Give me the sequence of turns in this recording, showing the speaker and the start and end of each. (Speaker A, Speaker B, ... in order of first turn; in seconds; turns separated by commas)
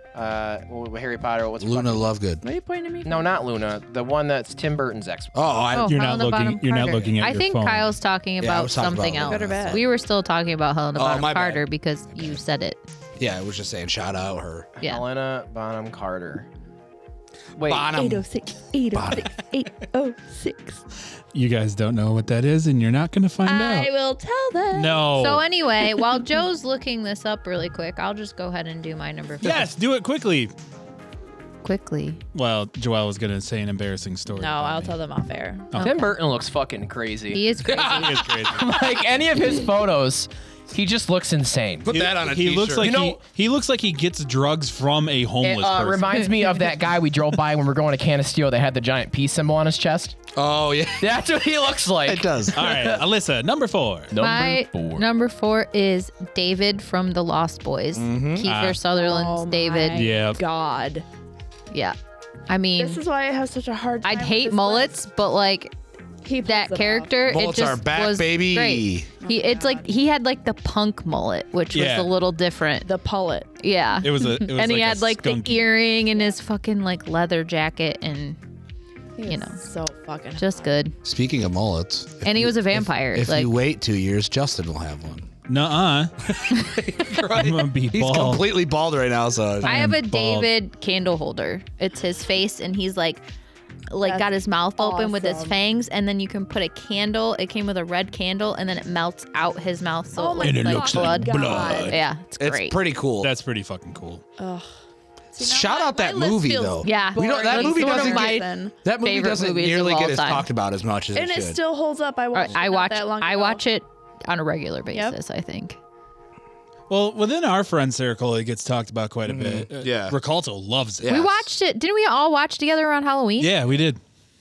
Speaker A: 0.1-2.1, Speaker B: 1.6-2.4, Speaker C: 2.4-3.3, Speaker A: 3.0-5.3, Speaker B: 5.3-5.9, Speaker D: 5.7-12.8, Speaker E: 5.9-7.9, Speaker B: 8.4-9.8, Speaker C: 9.2-9.8, Speaker B: 11.0-11.6, Speaker B: 13.2-14.7, Speaker A: 14.8-16.5, Speaker A: 17.6-17.9, Speaker B: 17.6-18.3, Speaker C: 17.9-20.8, Speaker B: 18.9-19.3, Speaker E: 21.3-23.9, Speaker C: 23.4-25.2, Speaker E: 24.7-25.4, Speaker D: 25.2-29.7, Speaker C: 25.8-26.1, Speaker E: 29.4-30.5, Speaker D: 31.6-32.2, Speaker E: 32.3-35.0, Speaker C: 34.4-35.7, Speaker E: 35.7-36.0, Speaker D: 35.8-36.0, Speaker A: 35.8-41.9, Speaker D: 37.3-38.3, Speaker E: 37.8-38.8, Speaker B: 41.8-43.0, Speaker E: 41.9-46.1, Speaker A: 42.8-43.2, Speaker A: 45.4-50.2, Speaker D: 46.1-46.4, Speaker B: 50.3-51.2, Speaker A: 51.0-52.7, Speaker B: 52.0-53.0, Speaker E: 52.5-54.1, Speaker A: 54.1-55.0, Speaker D: 54.2-60.1, Speaker B: 58.0-58.5, Speaker E: 58.4-58.8, Speaker C: 58.9-61.0, Speaker E: 59.9-60.4, Speaker D: 62.5-63.0, Speaker C: 62.8-64.9, Speaker D: 64.0-65.7, Speaker C: 66.2-67.2, Speaker D: 66.4-72.9, Speaker B: 67.3-69.1, Speaker C: 69.2-69.9, Speaker E: 71.7-72.1, Speaker C: 72.8-73.5, Speaker D: 73.6-78.4, Speaker E: 74.0-75.6, Speaker C: 79.2-80.7, Speaker D: 79.3-79.6, Speaker D: 80.4-80.9, Speaker B: 81.0-85.3, Speaker D: 82.2-83.5, Speaker E: 85.5-86.1, Speaker B: 86.3-89.8, Speaker E: 87.2-88.5, Speaker E: 89.6-90.5, Speaker D: 89.6-93.2, Speaker D: 93.9-102.8, Speaker C: 94.0-95.6, Speaker C: 100.2-102.1, Speaker E: 100.4-102.0, Speaker B: 102.4-103.3, Speaker E: 103.2-104.2, Speaker C: 104.4-104.7, Speaker C: 105.3-108.8, Speaker B: 105.4-111.6, Speaker D: 106.8-110.5, Speaker C: 111.2-113.7, Speaker D: 112.3-115.8, Speaker C: 114.9-115.2, Speaker E: 116.9-121.2, Speaker B: 119.3-120.2, Speaker B: 121.0-121.5, Speaker D: 121.1-123.6, Speaker E: 123.4-124.0